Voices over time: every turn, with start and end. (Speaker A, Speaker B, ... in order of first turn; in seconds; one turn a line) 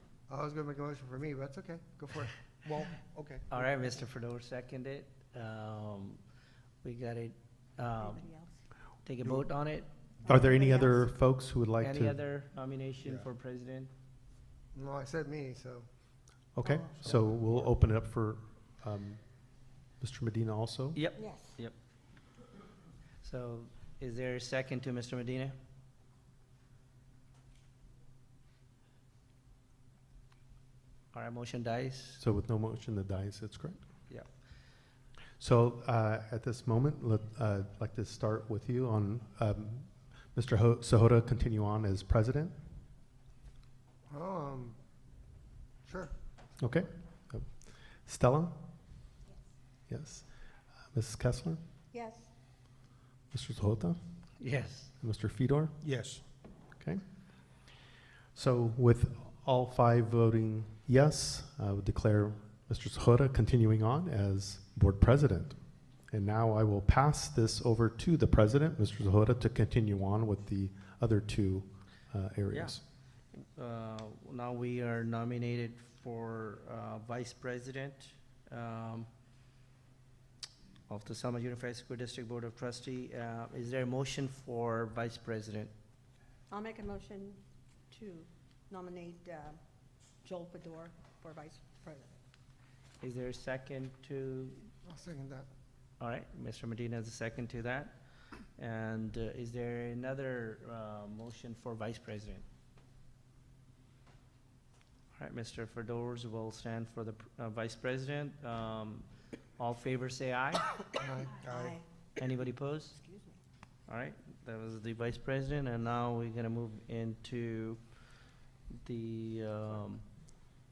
Speaker A: 0.3-3.7
Speaker B: 3.5-6.2
Speaker B: 6.8-8.3
Speaker C: 8.0-8.6
Speaker B: 9.1-9.9
Speaker C: 10.2-11.1
Speaker D: 10.3-12.2
Speaker B: 11.8-13.9
Speaker A: 13.0-13.3
Speaker A: 14.8-15.9
Speaker D: 16.6-21.0
Speaker C: 16.6-17.1
Speaker A: 17.0-17.6
Speaker B: 20.9-21.7
Speaker C: 21.2-21.5
Speaker B: 23.2-25.6
Speaker B: 31.1-32.2
Speaker D: 32.2-33.8
Speaker D: 35.4-42.6
Speaker A: 44.1-44.8
Speaker A: 45.9-46.1
Speaker D: 46.6-48.6
Speaker D: 49.9-50.3
Speaker D: 50.9-51.6
Speaker C: 51.9-52.3
Speaker D: 53.3-54.0
Speaker B: 54.4-54.9
Speaker D: 55.0-55.8
Speaker A: 55.8-56.2
Speaker D: 58.4-72.8
Speaker B: 72.5-72.8
Speaker B: 73.3-79.1
Speaker B: 80.9-85.7
Speaker C: 86.5-89.6
Speaker C: 90.2-92.2
Speaker B: 93.0-94.7
Speaker A: 94.8-95.5
Speaker B: 96.0-98.0
Speaker B: 98.6-102.5
Speaker B: 105.2-110.7
Speaker A: 111.0-111.8
Speaker C: 111.4-111.8
Speaker B: 112.2-113.0
Speaker C: 112.9-113.4
Speaker B: 113.9-117.8
Speaker B: 118.7-120.0